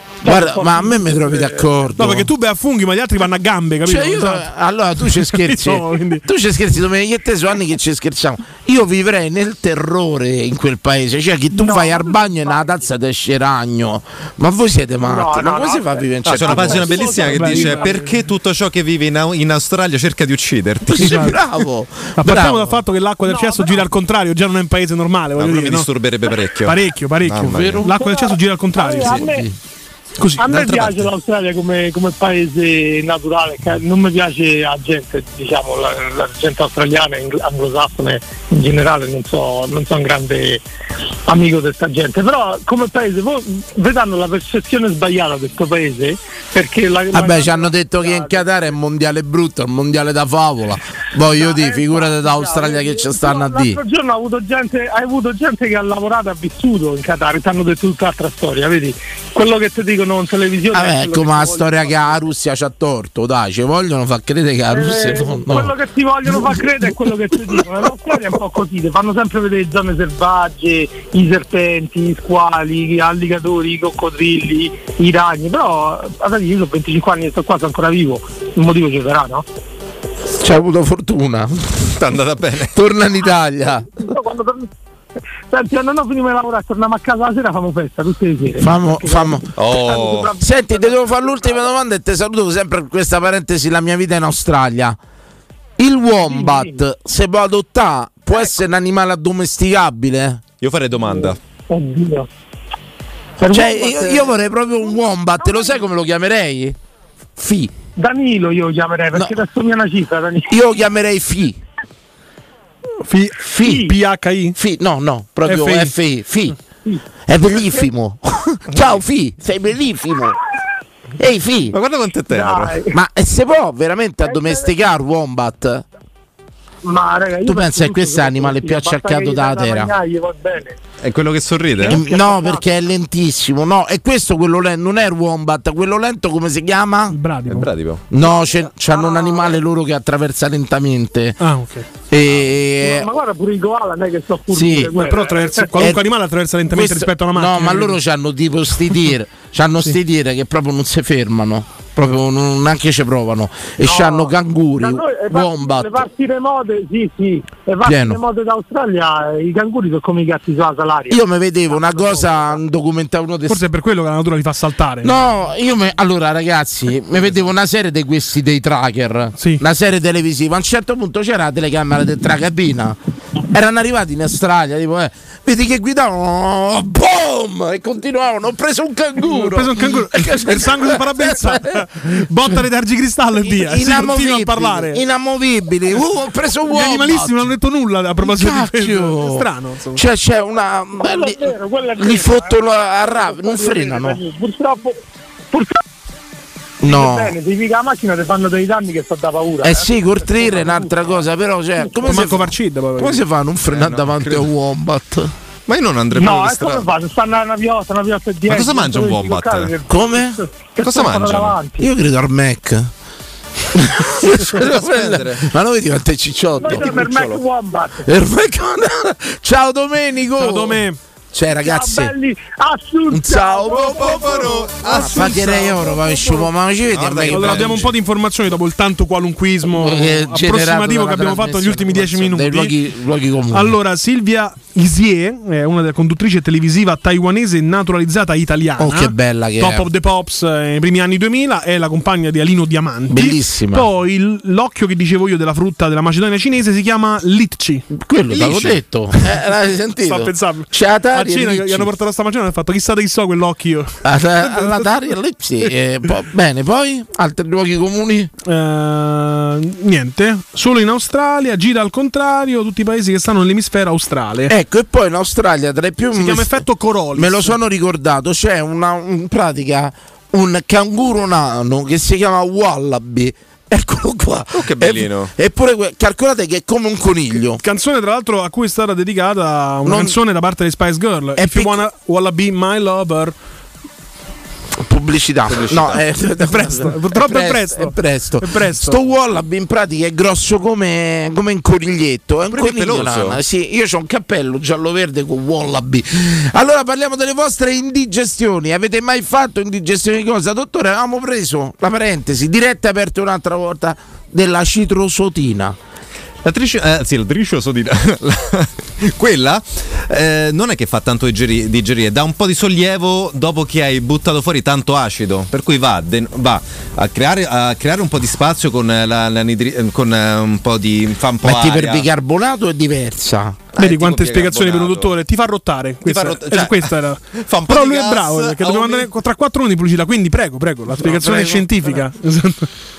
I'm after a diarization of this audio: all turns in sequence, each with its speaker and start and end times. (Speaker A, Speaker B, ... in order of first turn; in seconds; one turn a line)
Speaker A: 0.2-1.7
Speaker B: 0.2-2.3
Speaker C: 2.0-4.5
Speaker B: 3.9-17.2
Speaker C: 5.1-6.2
Speaker A: 11.6-12.9
Speaker A: 15.0-18.0
Speaker D: 16.2-21.3
Speaker C: 17.1-18.1
Speaker B: 20.9-22.8
Speaker C: 21.0-21.4
Speaker C: 22.2-25.9
Speaker A: 23.2-23.9
Speaker D: 25.4-27.9
Speaker C: 26.6-29.3
Speaker B: 27.4-27.9
Speaker A: 27.9-29.5
Speaker B: 28.9-29.6
Speaker C: 30.2-31.0
Speaker A: 30.4-40.6
Speaker A: 41.3-48.7
Speaker B: 47.1-53.8
Speaker A: 51.3-62.2
Speaker B: 60.7-65.8
Speaker A: 64.7-79.4
Speaker B: 80.4-81.8
Speaker D: 81.9-82.7
Speaker B: 82.7-83.9
Speaker A: 84.0-84.7
Speaker A: 85.5-91.7
Speaker B: 88.6-89.5
Speaker D: 89.6-90.3
Speaker B: 90.4-95.0
Speaker B: 95.8-100.4
Speaker A: 96.2-96.8
Speaker D: 100.6-101.4
Speaker A: 101.1-102.3
Speaker A: 103.4-104.4
Speaker B: 103.5-106.8
Speaker B: 107.4-107.7
Speaker A: 108.0-110.5
Speaker B: 109.2-109.4
Speaker B: 110.5-111.6
Speaker C: 113.1-114.6
Speaker B: 113.4-113.9
Speaker B: 114.6-116.6
Speaker C: 115.5-115.9
Speaker B: 117.3-120.4
Speaker B: 121.2-121.8
Speaker D: 121.7-122.8
Speaker A: 122.3-122.9
Speaker B: 122.9-125.8
Speaker A: 124.2-124.7
Speaker A: 126.8-130.8
Speaker B: 127.4-129.9
Speaker D: 131.0-132.0
Speaker A: 131.8-132.7
Speaker B: 131.8-137.2
Speaker C: 137.1-137.7
Speaker D: 137.5-138.1
Speaker B: 138.1-141.4
Speaker A: 138.2-139.6
Speaker C: 141.4-141.9
Speaker B: 142.1-143.1
Speaker A: 142.8-145.7
Speaker B: 144.5-144.9
Speaker C: 144.9-147.9
Speaker B: 145.8-146.0
Speaker B: 146.7-156.1
Speaker A: 153.8-162.6
Speaker B: 157.8-158.2
Speaker B: 161.1-163.6
Speaker C: 163.5-165.1
Speaker B: 165.0-173.0
Speaker C: 169.4-169.6
Speaker B: 173.5-181.8
Speaker C: 179.2-185.0
Speaker B: 183.4-187.5
Speaker C: 186.7-190.0
Speaker B: 188.2-194.2
Speaker A: 191.0-195.0
Speaker A: 195.5-195.8
Speaker B: 196.8-197.3
Speaker A: 196.8-201.2
Speaker B: 199.6-205.3
Speaker C: 202.1-203.2
Speaker D: 203.7-204.5
Speaker D: 205.7-206.9
Speaker A: 206.2-211.9
Speaker D: 208.4-209.7
Speaker B: 209.9-210.4
Speaker D: 210.8-211.6
Speaker B: 211.8-212.9
Speaker B: 213.7-217.4
Speaker D: 214.3-215.4
Speaker A: 216.6-218.1
Speaker B: 218.1-222.1
Speaker C: 220.4-221.0
Speaker A: 221.6-224.8
Speaker B: 223.1-227.9
Speaker D: 223.7-225.9
Speaker A: 225.8-226.5
Speaker D: 226.9-227.9
Speaker C: 227.3-232.7
Speaker B: 229.7-233.7
Speaker C: 233.5-247.8
Speaker B: 238.8-239.9
Speaker B: 243.1-243.9
Speaker B: 247.9-251.9
Speaker D: 248.3-248.7
Speaker C: 250.1-254.9
Speaker B: 254.1-258.3
Speaker C: 258.4-264.5
Speaker B: 264.5-266.6
Speaker C: 266.1-267.6
Speaker B: 267.1-277.6
Speaker D: 274.5-275.3
Speaker C: 277.6-283.4
Speaker B: 279.9-280.1
Speaker B: 281.4-281.8
Speaker B: 284.8-305.8
Speaker D: 285.5-286.1
Speaker C: 286.4-288.9
Speaker D: 292.5-293.4
Speaker D: 306.4-322.1
Speaker B: 321.4-323.6
Speaker D: 323.7-325.1
Speaker C: 323.8-332.7
Speaker D: 326.1-329.1
Speaker B: 330.9-331.9